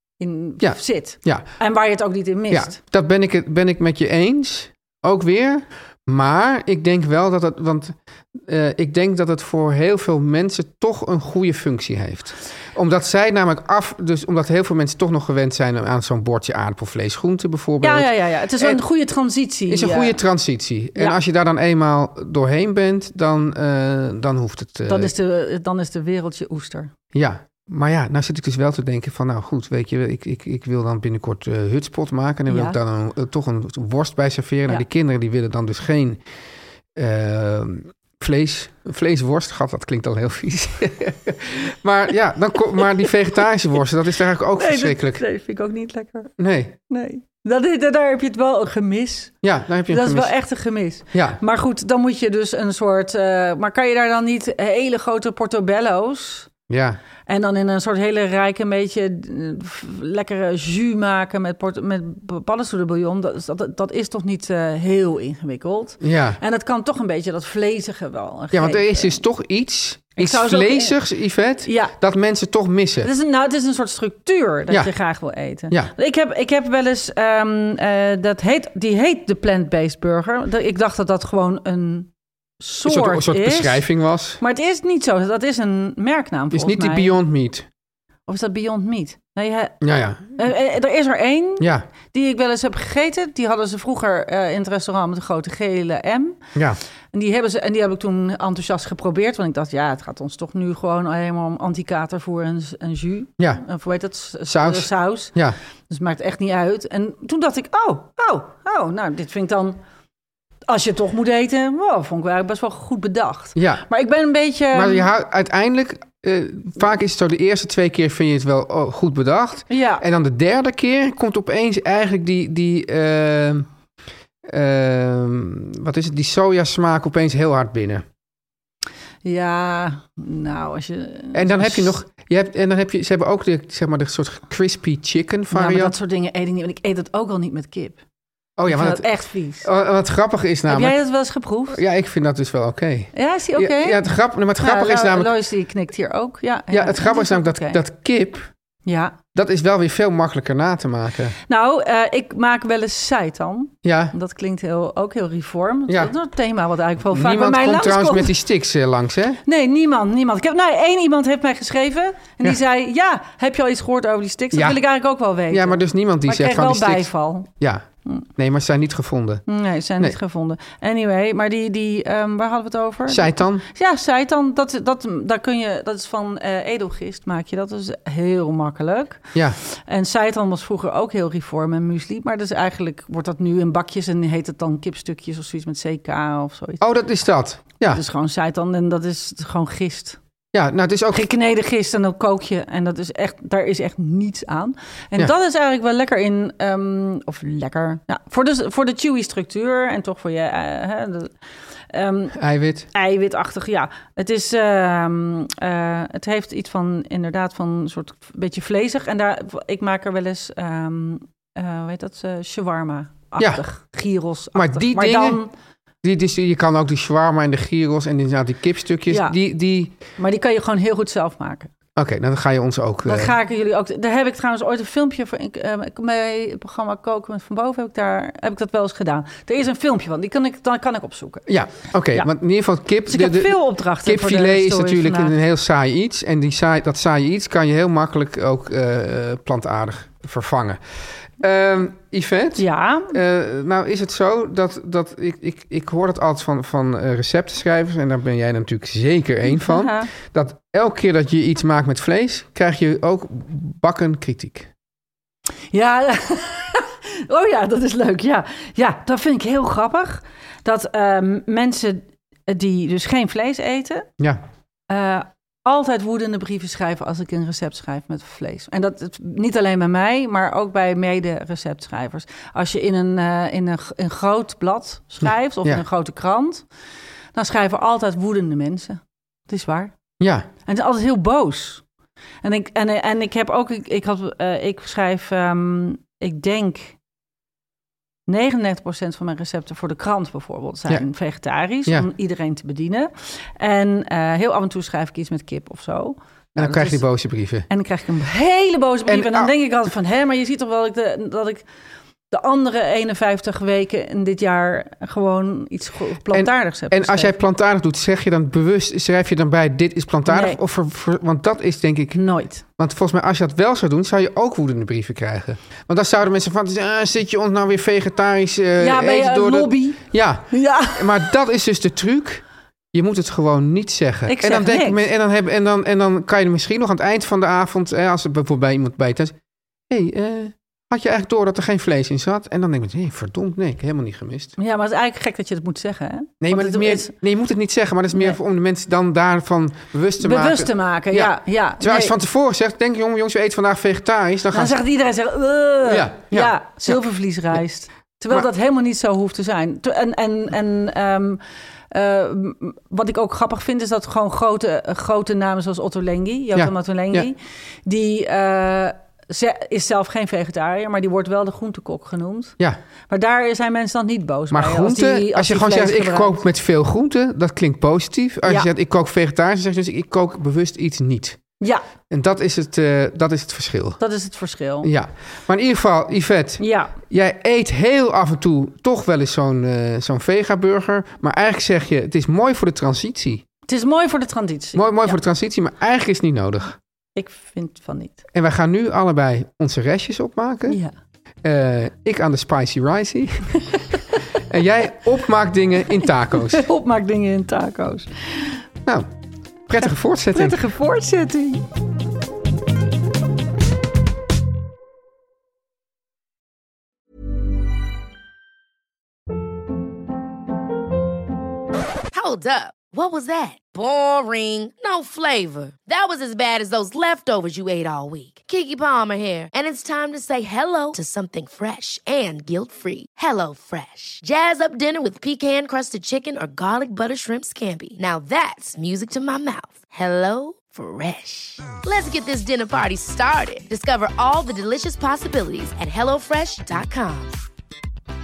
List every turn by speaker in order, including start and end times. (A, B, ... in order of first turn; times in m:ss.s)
0:00.2-0:02.8 A
0:00.6-0:01.5 B
0:02.5-0:18.8 B
0:17.8-0:20.2 A
0:19.7-0:25.1 B
0:24.8-0:26.9 A
0:27.1-0:36.2 B
0:32.5-0:32.8 A
0:37.0-0:45.2 B
0:44.6-0:46.3 A
0:46.4-0:46.8 B
0:46.9-0:49.3 A
0:49.4-0:50.3 B
0:49.9-0:56.5 A
0:51.1-0:51.4 B
0:56.7-0:57.0 B
0:57.3-1:09.2 A
1:06.0-1:06.4 B
1:08.5-1:13.1 B
1:10.2-1:11.0 A
1:11.6-1:11.9 A
1:13.0-1:22.1 A
1:22.6-1:23.8 A
1:22.8-1:24.4 B
1:24.4-1:27.1 A
1:26.5-1:27.7 B
1:28.3-1:29.8 A
1:29.8-1:30.4 B
1:30.3-1:36.4 A
1:31.6-1:31.8 B
1:37.1-1:45.3 A
1:44.5-1:45.6 B
1:45.9-1:49.8 A
1:50.7-1:55.1 A
1:53.6-1:53.8 B
1:54.7-2:03.7 B
1:59.7-2:00.0 A
2:04.4-2:08.0 B
2:09.2-2:11.9 A
2:11.3-2:15.9 B
2:15.5-2:18.0 A
2:18.6-2:19.1 B
2:18.7-2:19.7 A
2:19.6-2:21.0 B
2:20.7-2:21.8 A
2:21.7-2:25.3 B
2:23.1-2:24.0 A
2:24.6-2:27.8 A
2:26.7-2:28.5 B
2:28.8-2:29.2 A
2:29.3-2:31.4 B
2:31.5-2:38.4 A
2:33.8-2:34.1 B
2:35.9-2:36.1 B
2:37.1-2:39.4 B
2:39.4-2:47.5 A
2:44.5-2:44.8 B
2:45.5-2:49.4 B
2:49.5-3:06.8 A
2:53.1-2:53.6 B
3:06.8-3:08.0 B
3:07.8-3:10.2 A
3:10.5-3:11.3 B
3:11.1-3:21.3 A
3:21.9-3:22.4 A
3:22.3-3:22.9 B
3:22.9-3:35.5 A
3:33.4-3:33.6 B
3:34.5-3:35.4 B
3:36.0-3:39.9 B
3:39.1-3:39.3 A
3:40.2-3:41.7 A
3:42.0-3:43.3 B
3:43.0-3:51.5 A
3:51.5-4:00.8 B
3:53.1-3:55.4 A
4:01.4-4:14.7 B
4:02.6-4:03.2 A
4:09.5-4:10.1 A
4:15.7-4:24.1 A
4:24.9-4:36.6 A
4:35.2-4:35.8 B
4:37.3-4:40.0 A
4:40.2-4:40.5 B
4:40.6-4:41.8 A
4:42.4-4:47.0 A
4:48.3-4:57.1 A
4:56.6-4:57.7 B
4:57.7-5:01.6 A
4:59.1-4:59.5 B
5:02.3-5:07.3 A
5:06.3-5:29.3 B
5:10.3-5:10.6 A
5:12.1-5:12.6 A
5:18.8-5:21.2 A
5:24.3-5:25.0 A
5:29.9-5:34.5 B
5:34.6-5:37.1 A
5:36.4-5:44.8 B
5:38.1-5:38.4 A
5:40.2-5:42.1 A
5:44.5-5:51.4 A
5:45.8-5:46.9 B
5:51.9-6:02.6 A
5:56.5-5:57.3 B
6:03.1-6:06.4 A
6:04.5-6:11.4 B
6:12.1-6:14.0 B
6:14.0-6:14.9 A
6:14.8-6:23.4 B
6:16.6-6:16.9 A
6:23.7-6:25.2 A
6:24.7-6:26.8 B
6:27.2-6:28.2 A
6:28.3-6:30.8 B
6:31.4-6:33.7 B
6:34.4-6:36.7 B
6:36.5-6:38.6 A
6:38.8-6:39.1 B
6:39.7-6:40.6 B
6:39.8-6:41.6 A
6:52.1-7:17.4 C